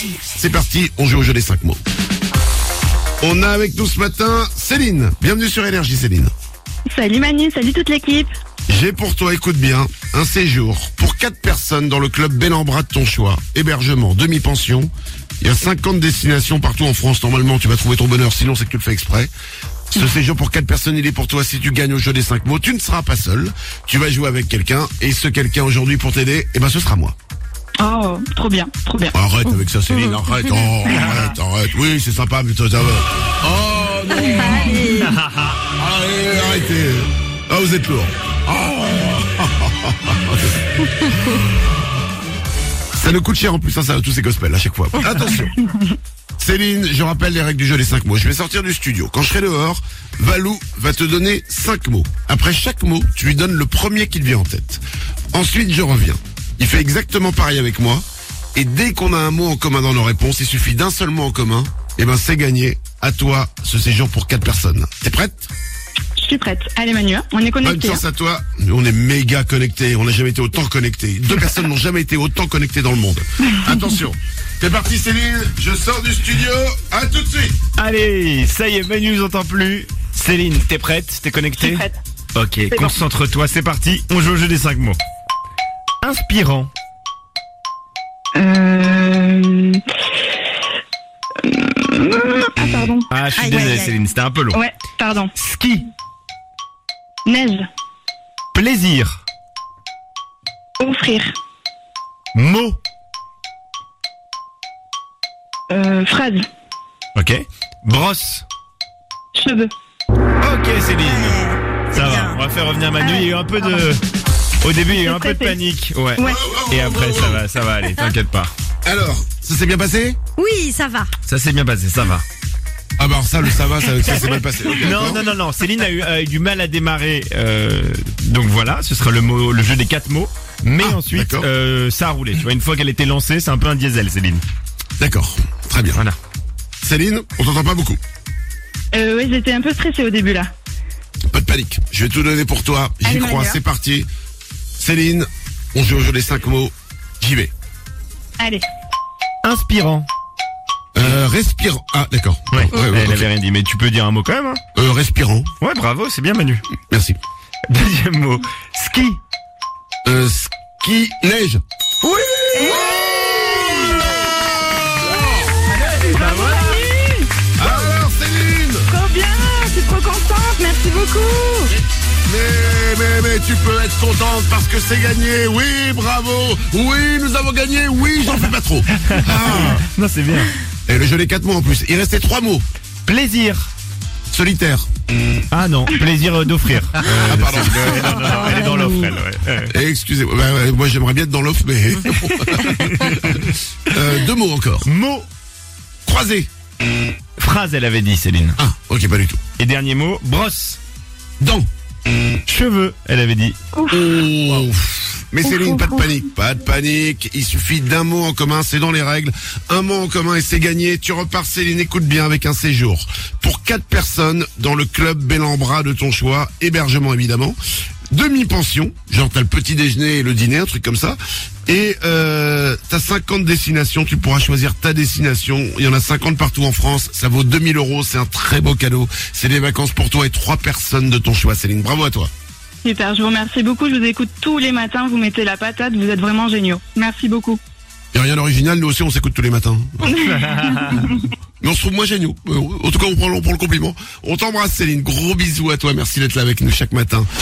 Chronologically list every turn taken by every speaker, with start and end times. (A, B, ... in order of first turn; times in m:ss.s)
0:00.3-0:01.8 A
0:03.2-0:06.3 A
0:06.9-0:08.3 B
0:08.7-0:19.3 A
0:19.9-0:27.1 A
0:27.8-0:29.1 B
0:29.1-0:34.9 A
0:34.2-0:35.2 C
0:34.9-0:35.5 D
0:35.7-0:41.1 A
0:43.0-0:45.5 A
0:46.4-0:58.0 A
0:58.6-1:05.5 A
1:06.2-1:08.0 B
1:07.6-1:17.6 A
1:17.8-1:21.8 D
1:21.6-1:22.0 B
1:22.3-1:25.0 D
1:26.0-1:26.7 D
1:28.3-1:29.8 B
1:31.4-1:33.9 B
1:33.1-1:34.6 D
1:33.3-1:33.9 C
1:34.5-1:35.3 B
1:35.4-1:35.8 D
1:37.2-1:37.6 B
1:38.5-1:39.2 D
1:40.8-1:41.3 B
1:42.3-1:42.8 D
1:45.7-1:46.4 B
1:47.1-1:48.4 D
1:49.3-1:49.7 B
1:50.4-1:54.0 D
1:51.0-1:52.4 C
1:53.0-1:53.3 C
1:54.6-1:58.5 D
1:55.0-1:55.6 B
1:56.2-1:57.4 A
1:58.8-2:00.2 A
2:00.4-2:01.1 C
2:01.2-2:02.2 D
2:03.0-2:05.2 A
2:04.8-2:14.4 D
2:10.8-2:11.5 A
2:15.0-2:16.0 A
2:16.8-2:18.0 A
2:18.9-2:20.5 B
2:21.3-2:24.1 A
2:23.0-2:23.6 B
2:24.8-2:27.5 A
2:28.4-2:28.7 B
2:29.4-2:30.1 D
2:30.9-2:33.3 A
2:32.5-2:34.6 D
2:34.8-2:35.5 A
2:35.6-2:36.6 D
2:36.9-2:37.2 A
2:37.7-2:39.2 D
2:40.0-2:41.6 A
2:42.5-2:44.3 B
2:45.0-2:45.6 A
2:45.7-2:47.7 B
2:45.9-2:46.7 D
2:47.6-2:48.9 A
2:48.9-2:51.7 B
2:52.2-2:59.8 A
2:59.0-3:00.5 D
3:00.9-3:02.6 A
3:03.0-3:03.7 D
3:04.3-3:04.9 A
3:05.5-3:09.7 D
3:07.0-3:08.9 A
3:09.7-3:14.8 A
3:12.5-3:13.4 D
3:14.8-3:15.3 D
3:16.1-3:16.5 A
3:17.4-3:18.6 D
3:18.6-3:19.4 A
3:19.6-3:20.8 D
3:21.4-3:21.7 A
3:22.4-3:23.6 D
3:23.7-3:24.1 B
3:23.9-3:37.6 A
3:25.4-3:26.1 B
3:38.1-3:52.3 A
3:52.8-3:57.6 B
3:58.1-4:00.2 A
4:00.0-4:01.2 D
4:00.1-4:01.2 B
4:01.6-4:07.3 A